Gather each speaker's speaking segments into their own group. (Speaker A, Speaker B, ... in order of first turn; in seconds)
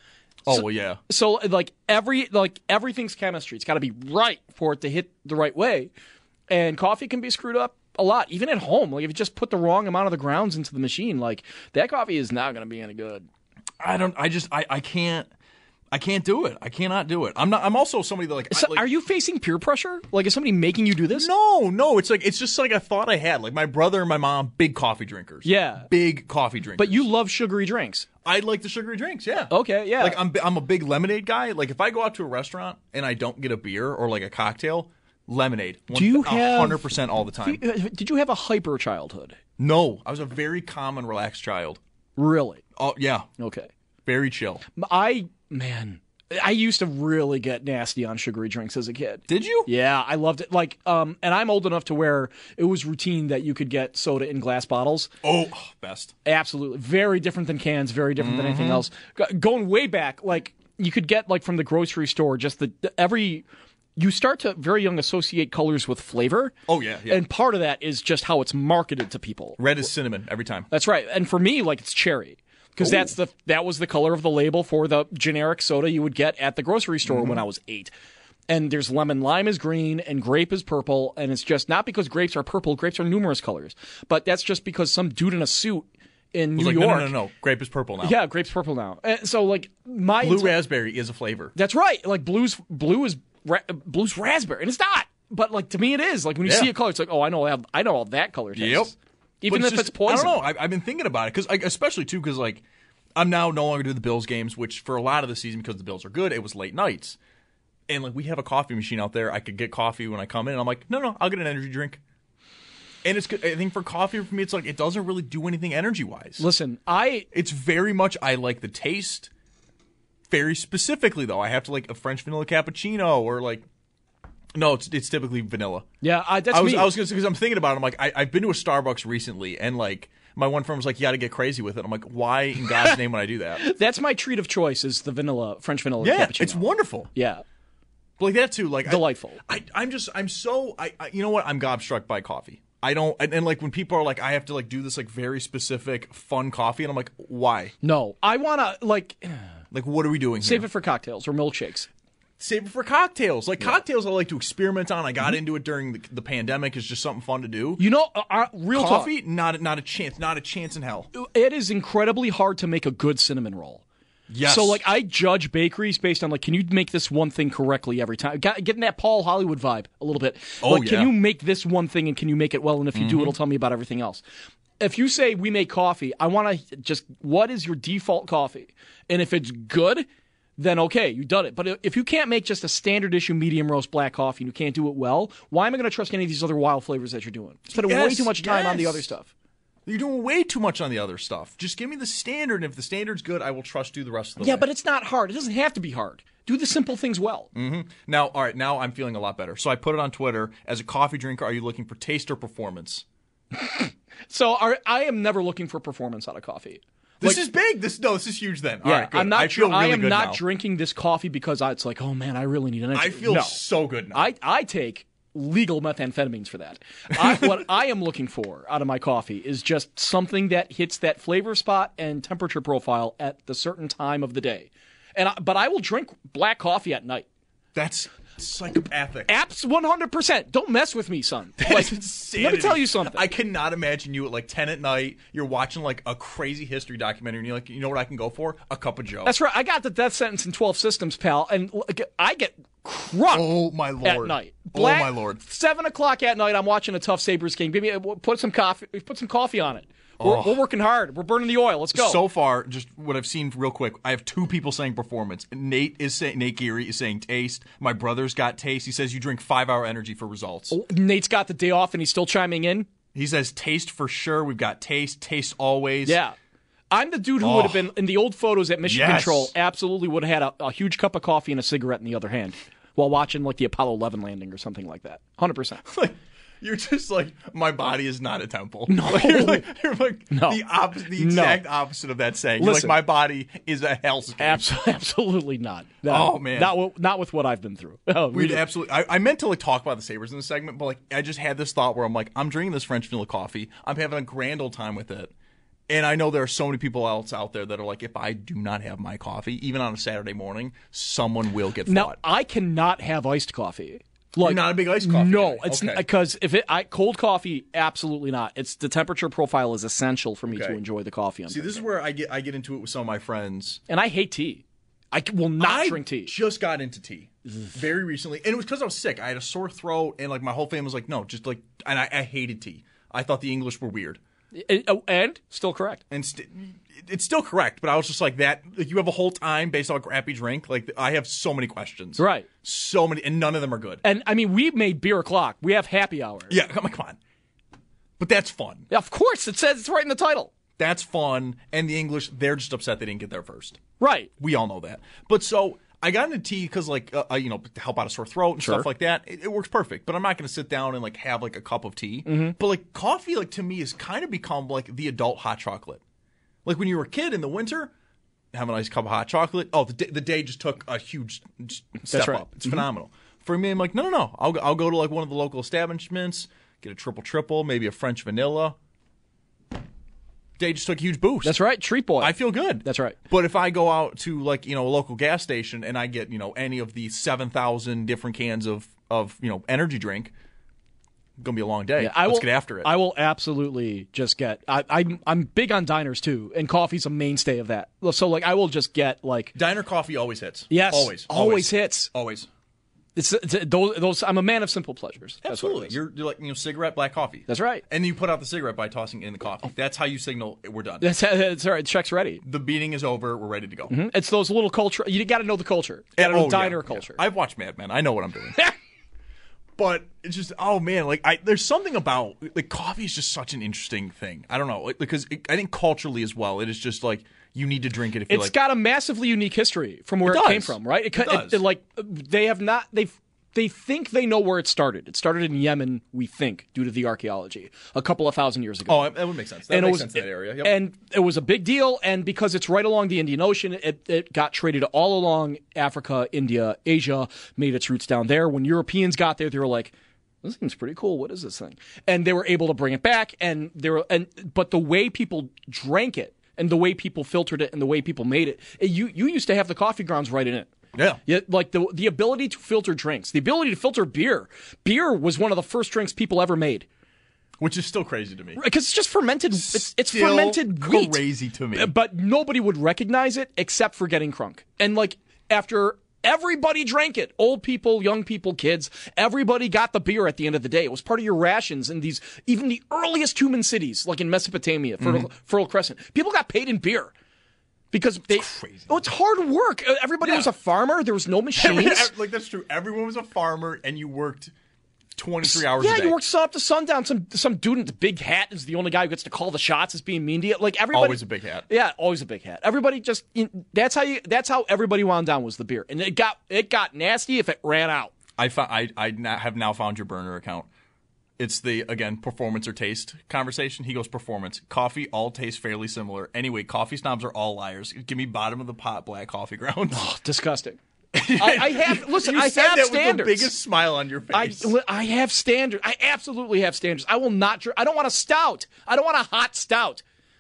Speaker A: 0.5-1.0, 13.8-15.3, 15.9-18.9, 21.1-27.0, 28.2-37.6, 39.6-41.8, 42.8-43.3, 44.0-44.6, 49.3-49.7, 55.2-56.1, 58.2-58.8, 66.7-67.2, 69.6-70.7, 72.8-73.1, 77.0-77.4, 86.5-88.2, 90.2-91.5, 96.4-96.7, 98.5-98.9, 99.5-102.6, 103.1-107.2, 107.9-112.0, 113.0-116.4, 117.3-119.3, 120.3-123.7, 124.5-125.9, 126.5-133.6, 136.0-137.1, 138.2-147.7, 149.7-150.7, 152.4-157.8, 158.7-161.1, 164.3-164.8, 170.6-171.1, 172.9-173.3, 187.7-189.1, 189.8-194.7, 197.5-203.0, 207.2-210.4, 212.9-214.3, 227.7-229.3, 231.6-239.3, 243.3-245.4, 250.2-250.6, 251.9-260.8, 263.1-266.2, 267.4-267.9, 268.9-269.5, 275.9-284.7, 286.1-286.8, 288.3-295.3, 295.9-302.2, 304.4-306.0, 310.5-310.8, 311.5-313.8, 315.6-324.2, 326.1-334.0, 336.5-337.2, 338.2-338.9, 340.8-343.8, 344.4-356.0, 356.6-357.9, 358.5-368.8, 370.6-371.6, 372.2-380.3, 381.4-382.9, 389.5-392.5, 395.4-401.1, 402.4-403.9, 406.2-408.7, 409.8-418.6, 420.2-421.6, 428.9-430.8, 450.9-451.2, 457.6-458.6, 459.5-461.9, 475.0-475.3, 478.3-479.0, 480.2-480.5, 481.6-484.5, 485.1-486.2, 490.9-491.7, 498.4-500.7, 501.4-510.0, 511.1-514.7
Speaker B: 0.5-5.9, 6.5-13.3, 18.5-21.3, 25.4-25.9, 26.8-28.1, 29.5-30.2, 35.9-36.9, 37.4-39.4, 42.2-42.6, 43.4-43.7, 44.8-55.1, 56.2-63.4, 64.0-66.5, 67.1-69.8, 70.7-77.9, 78.5-87.1, 88.0-90.6, 91.5-100.4, 116.4-117.3, 126.0-126.9, 133.6-137.4, 138.8-139.4, 147.8-149.4, 150.4-151.9, 157.8-159.1, 161.1-163.8, 164.4-174.2, 174.8-180.1, 180.6-189.3, 194.4-197.5, 203.5-207.4, 208.8-213.6, 214.1-227.2, 229.3-233.2, 239.2-252.2, 260.7-262.9, 266.0-266.3, 266.9-275.8, 278.9-279.6, 280.3-281.6, 282.6-283.0, 284.4-288.6, 301.9-311.8, 313.9-316.3, 324.5-326.0, 332.2-332.5, 334.0-336.6, 338.9-340.5, 344.0-344.3, 348.6-348.9, 352.2-352.6, 362.1-362.8, 371.4-373.1, 382.0-389.5, 390.7-392.1, 393.1-395.9, 397.5-397.8, 401.0-402.4, 403.9-407.2, 418.3-429.1, 429.7-450.7, 451.2-456.9, 458.6-461.2, 461.7-477.1, 477.9-482.1, 485.4-498.1, 509.9-510.8, 511.4-513.5, 514.3-520.0